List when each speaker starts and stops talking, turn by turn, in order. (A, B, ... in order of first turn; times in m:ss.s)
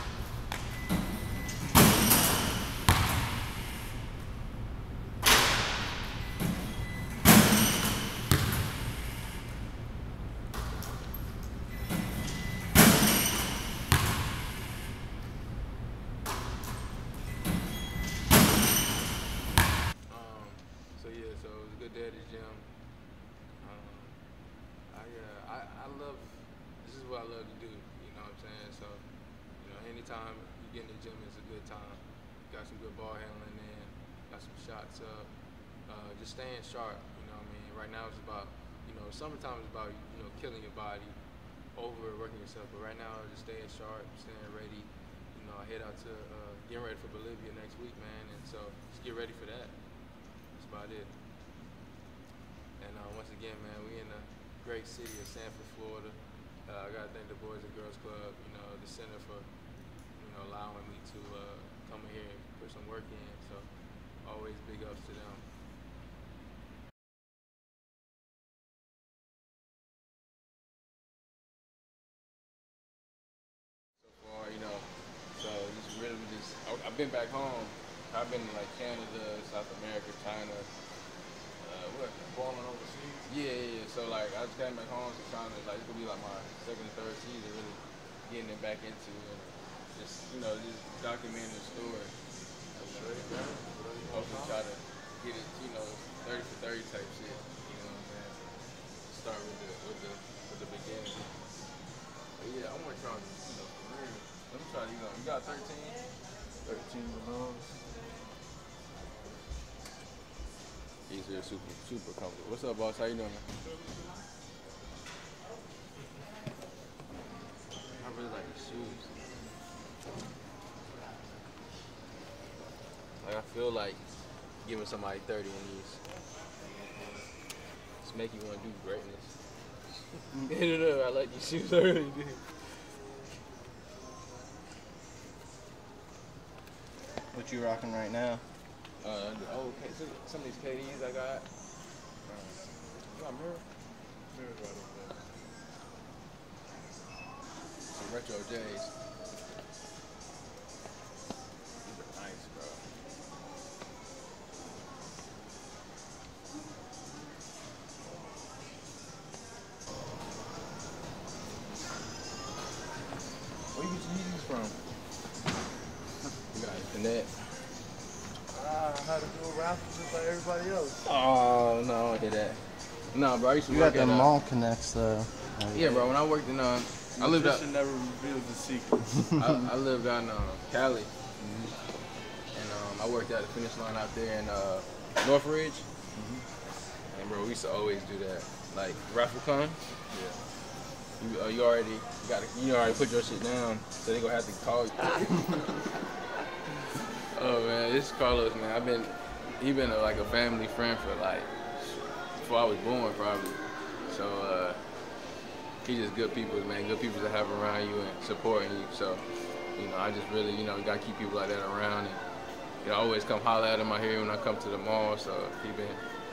0:20.1-0:22.6 A
0:23.6-0:24.2 A
0:24.9-0:29.0 A
0:29.6-0:35.3 A
0:35.9-0:41.1 A
0:41.8-0:49.8 A
0:50.5-0:51.1 A
0:52.8-0:56.2 A
0:56.7-0:59.5 A
1:00.2-1:03.6 A
1:04.2-1:05.4 A
1:14.1-1:20.7 A
1:21.6-1:22.2 A
1:22.2-1:23.2 B
1:23.3-1:32.1 A
1:32.7-1:34.6 B
1:32.8-1:33.3 A
1:34.1-1:38.4 A
1:39.1-1:41.2 A
1:42.4-1:46.0 A
1:46.6-1:47.7 B
1:51.1-1:53.4 A
1:58.0-1:59.1 A
2:03.2-2:04.0 A
2:04.6-2:06.0 A
2:06.7-2:07.1 B
2:08.0-2:09.3 A
2:10.5-2:12.4 A
2:17.3-2:18.4 C
2:19.0-2:21.4 A
2:22.3-2:22.6 A
2:23.1-2:23.6 A
2:24.3-2:25.3 B
2:27.9-2:28.9 A
2:31.8-2:32.8 A
2:43.8-2:44.7 B
2:46.5-2:47.3 A
2:48.5-2:51.0 B
2:51.0-2:52.6 A
2:53.1-2:54.3 A
2:53.7-2:56.0 C
2:55.7-2:57.6 A
2:57.2-2:59.1 B
2:59.4-3:01.1 A
3:02.5-3:05.9 A
3:07.1-3:09.8 A
3:10.1-3:10.4 B
3:11.2-3:15.6 A
3:17.3-3:21.5 A
3:22.4-3:24.8 A
3:25.8-3:29.2 A
3:29.8-3:32.2 A
3:32.8-3:36.0 A